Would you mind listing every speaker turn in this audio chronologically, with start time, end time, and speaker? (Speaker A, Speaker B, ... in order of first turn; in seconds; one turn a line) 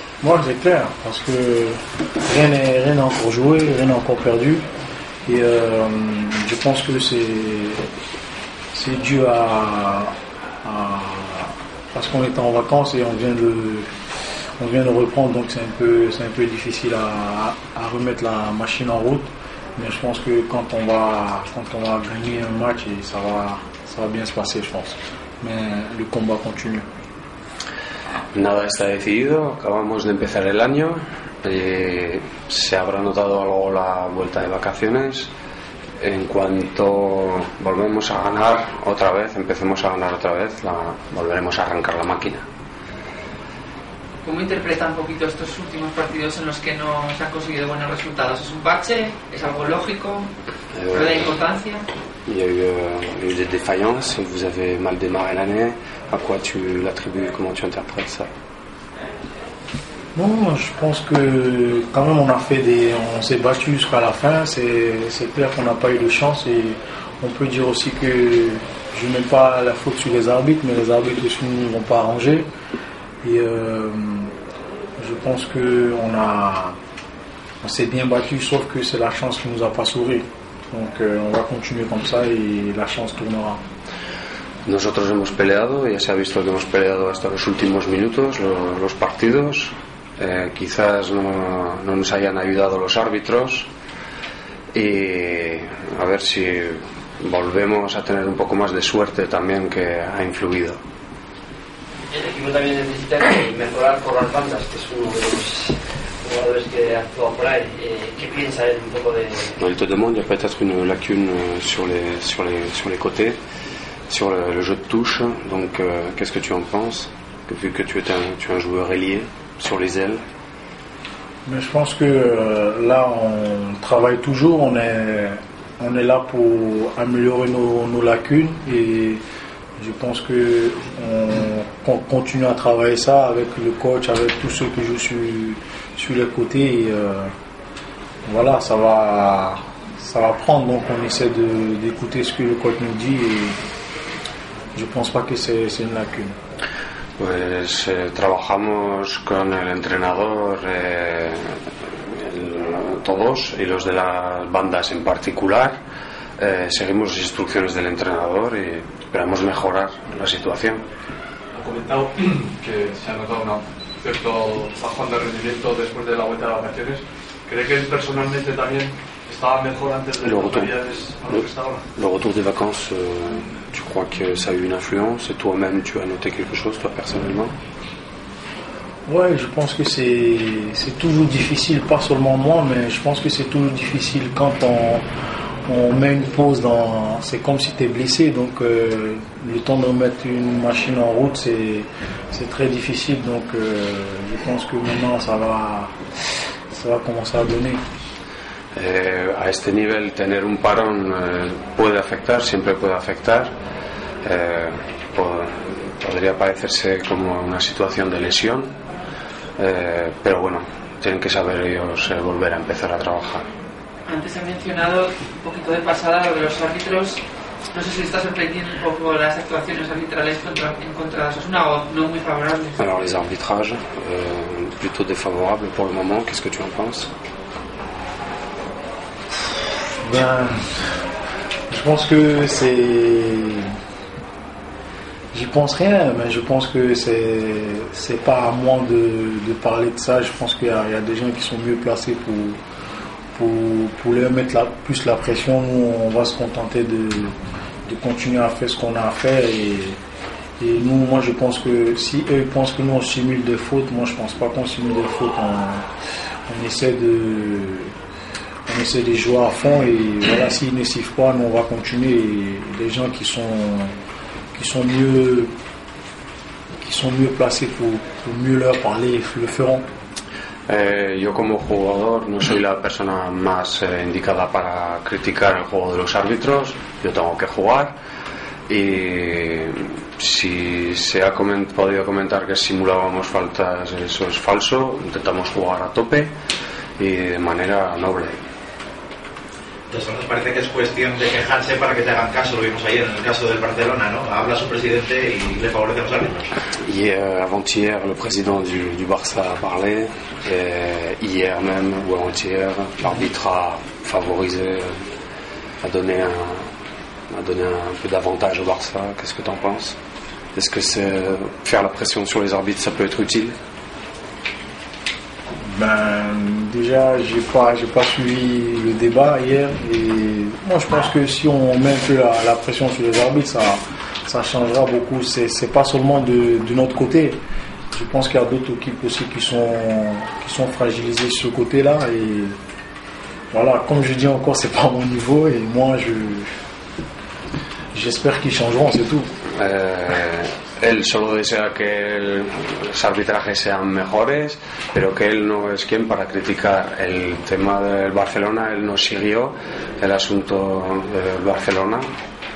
Speaker A: 0.2-4.6
Speaker A: 5.3-7.8
Speaker A: 8.7-10.1
Speaker A: 10.6-13.9
Speaker A: 14.6-26.9
Speaker B: 28.3-35.3
Speaker B: 36.0-42.5
Speaker C: 44.2-50.3
Speaker B: 50.7-51.4
Speaker C: 50.9-51.9
Speaker B: 52.3-58.3
Speaker A: 60.1-72.5
Speaker A: 73.2-74.3
Speaker A: 75.0-76.8
Speaker A: 77.6-83.6
Speaker B: 84.7-93.7
Speaker B: 94.7-100.8
Speaker D: 102.1-109.5
Speaker B: 109.6-113.4
Speaker B: 114.1-120.2
Speaker A: 121.5-129.2
Speaker A: 129.8-137.3
Speaker A: 138.3-143.6
Speaker A: 144.8-146.4
Speaker B: 147.2-151.6
Speaker B: 152.1-155.8
Speaker B: 156.4-160.8
Speaker E: 161.6-171.8
Speaker B: 170.2-170.7
Speaker B: 171.3-177.5
Speaker A: 179.1-185.1
Speaker A: 185.7-196.0
Speaker A: 196.7-197.8
Speaker B: 198.8-203.5
Speaker B: 204.2-208.7
Speaker B: 209.6-213.4
Speaker C: 214.1-217.2
Speaker C: 217.7-222.8
Speaker B: 222.8-227.1
Speaker A: 230.0-231.1
Speaker A: 231.7-233.7
Speaker A: 235.3-242.6
Speaker A: 243.3-247.3
Speaker A: 247.9-250.0
Speaker A: 250.6-255.9
Speaker A: 256.5-257.9
Speaker A: 258.7-264.0
Speaker A: 264.6-265.5
Speaker A: 266.8-269.9
Speaker B: 270.7-277.9
Speaker B: 278.7-286.3
Speaker B: 287.0-288.4
Speaker F: 289.9-296.5
Speaker B: 296.9-305.0
Speaker B: 305.8-306.7
Speaker B: 307.3-310.0
Speaker B: 310.6-313.6
Speaker A: 315.6-327.4
Speaker A: 327.9-332.6
Speaker A: 333.5-336.5
Speaker A: 337.9-339.3
Speaker B: 339.6-352.0